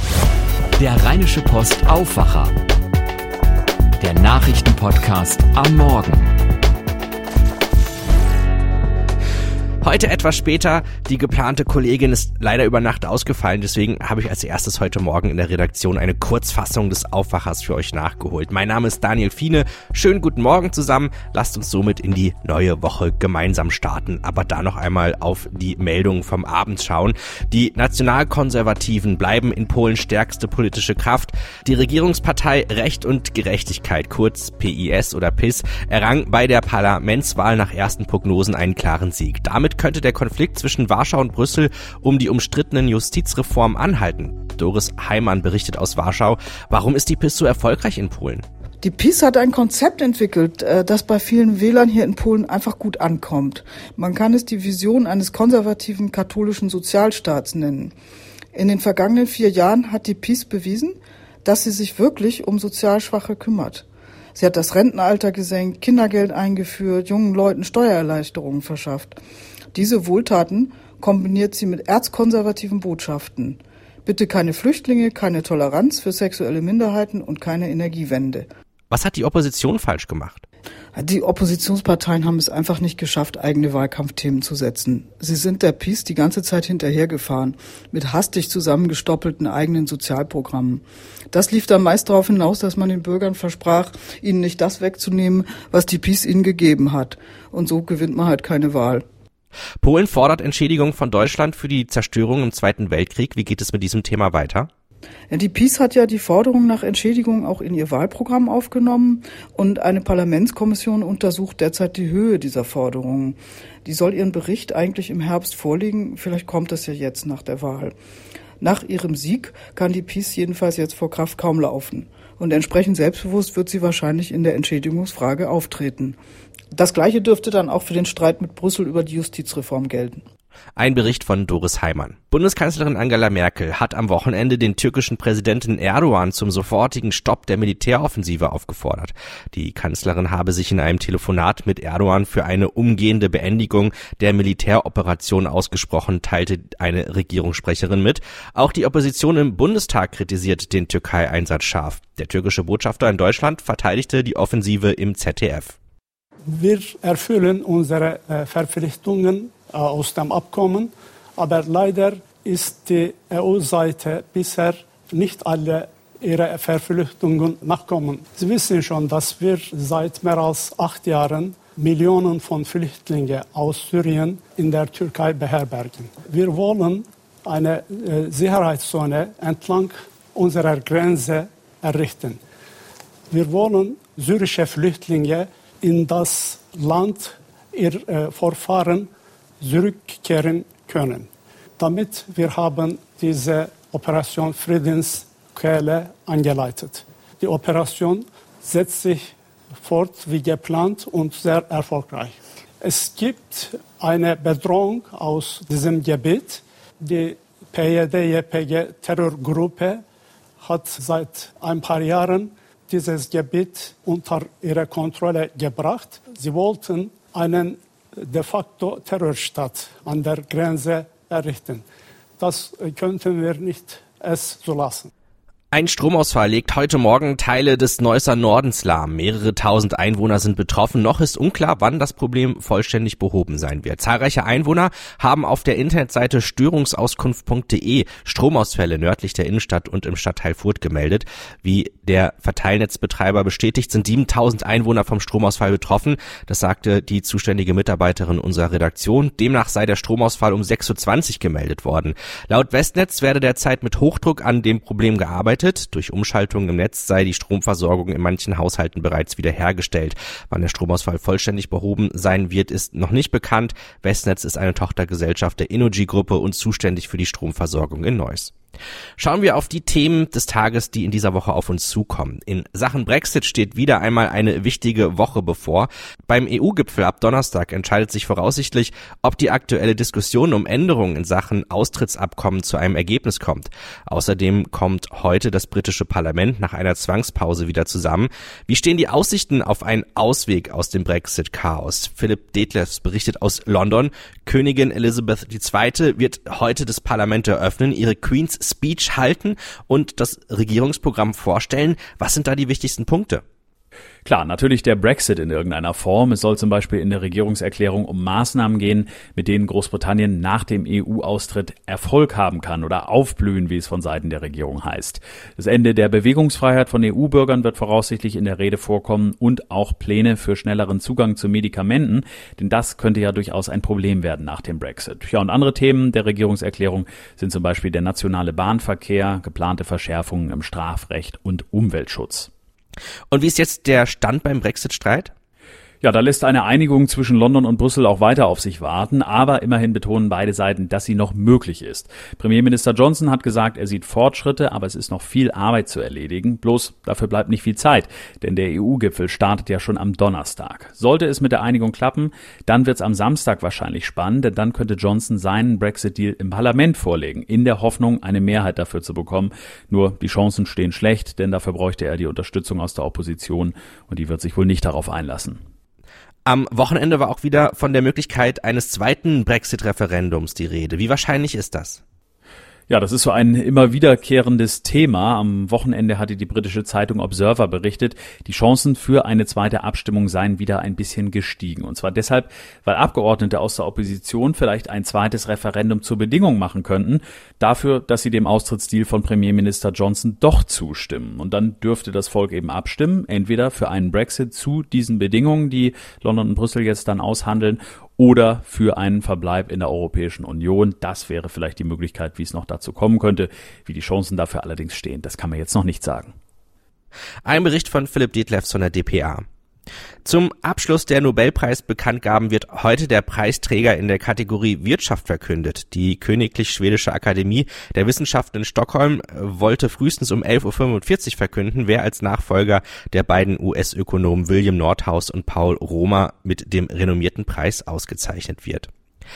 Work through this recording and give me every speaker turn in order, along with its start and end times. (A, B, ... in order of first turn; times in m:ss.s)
0:00.8-0:02.5 A
0:04.0-0:06.3 A
0:09.8-0:48.4 B
0:48.8-0:57.9 C
0:58.5-1:09.2 C
1:09.7-1:18.5 C
1:18.9-1:20.5 B
1:21.0-1:39.0 C
1:39.8-1:44.7 B
1:45.3-1:57.9 C
1:58.6-2:06.2 C
2:06.7-2:10.2 C
2:10.8-2:35.8 B
2:36.5-3:02.4 D
3:03.3-3:09.1 D
3:09.6-3:30.0 D
3:30.6-3:41.8 D
3:42.4-3:45.1 D
3:45.7-4:28.5 B
4:29.2-5:03.4 B
5:04.2-5:32.5 E
5:33.3-5:35.3 B
5:36.0-6:05.6 E
6:06.5-6:12.0 B
6:12.9-6:46.3 E
6:47.4-6:49.4 B
6:50.2-7:08.9 B